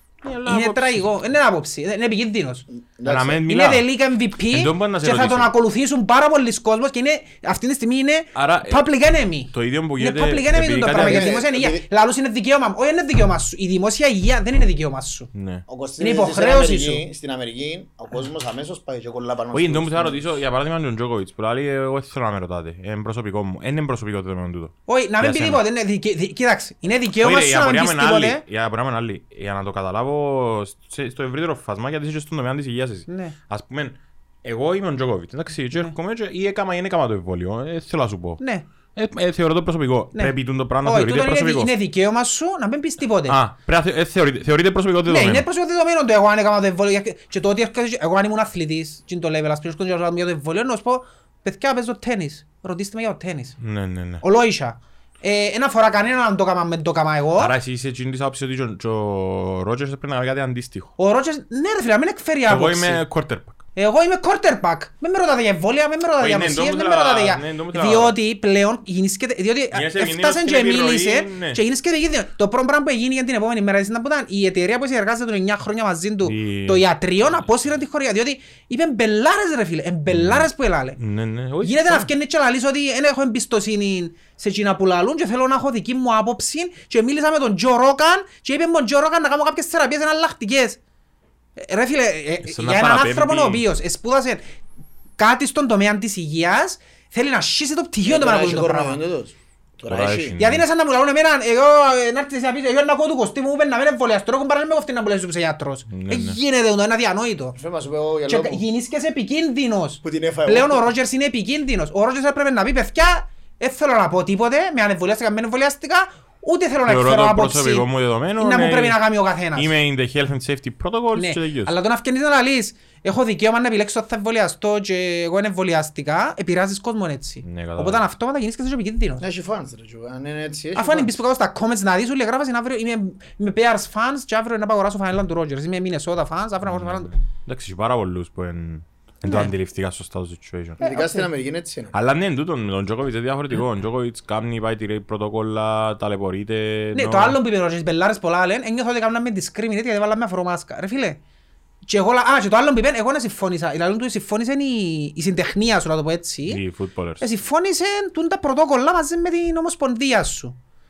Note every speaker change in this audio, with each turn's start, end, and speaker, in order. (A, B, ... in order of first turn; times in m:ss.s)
0:00.2-0:01.1 A
0:00.4-0:02.6 B
0:02.7-0:03.4 C
0:03.0-0:03.9 A
0:03.4-0:15.3 B
0:04.5-0:05.5 A
0:08.3-0:08.8 A
0:09.5-0:11.4 A
0:10.9-0:11.8 C
0:15.3-0:15.6 A
0:15.7-0:20.3 C
0:16.0-0:17.0 B
0:19.5-0:25.6 A
0:24.9-0:28.4 B
0:27.1-0:38.4 A
0:33.1-0:33.4 B
0:38.4-0:38.6 B
0:38.9-0:41.7 A
0:40.1-0:43.4 B
0:43.3-0:45.4 A
0:45.1-0:53.6 B
0:53.6-0:54.2 A
0:54.2-0:57.5 B
0:57.4-1:00.9 A
1:01.0-1:03.0 B
1:02.5-1:03.6 A
1:03.8-1:21.0 B
1:06.2-1:08.2 A
1:09.7-1:11.6 A
1:16.2-1:17.4 A
1:20.1-1:22.1 A
1:21.6-1:30.8 B
1:31.6-1:34.4 B
1:32.4-1:33.6 A
1:35.2-1:39.0 B
1:38.0-1:40.4 C
1:39.9-1:40.6 A
1:40.4-1:47.6 B
1:45.9-1:46.4 A
1:47.6-1:48.6 C
1:48.3-1:59.7 B
1:50.0-1:50.9 C
1:56.8-2:01.7 A
2:01.1-2:09.2 B
2:07.4-2:08.0 A
2:09.2-2:11.2 C
2:10.7-2:17.1 B
2:16.6-2:20.8 A
2:19.2-2:19.5 B
2:20.8-2:21.9 C
2:20.8-2:21.3 B
2:21.9-2:27.4 A
2:26.9-2:31.2 B
2:31.8-2:36.6 B
2:36.5-2:37.2 A
2:37.2-2:40.6 B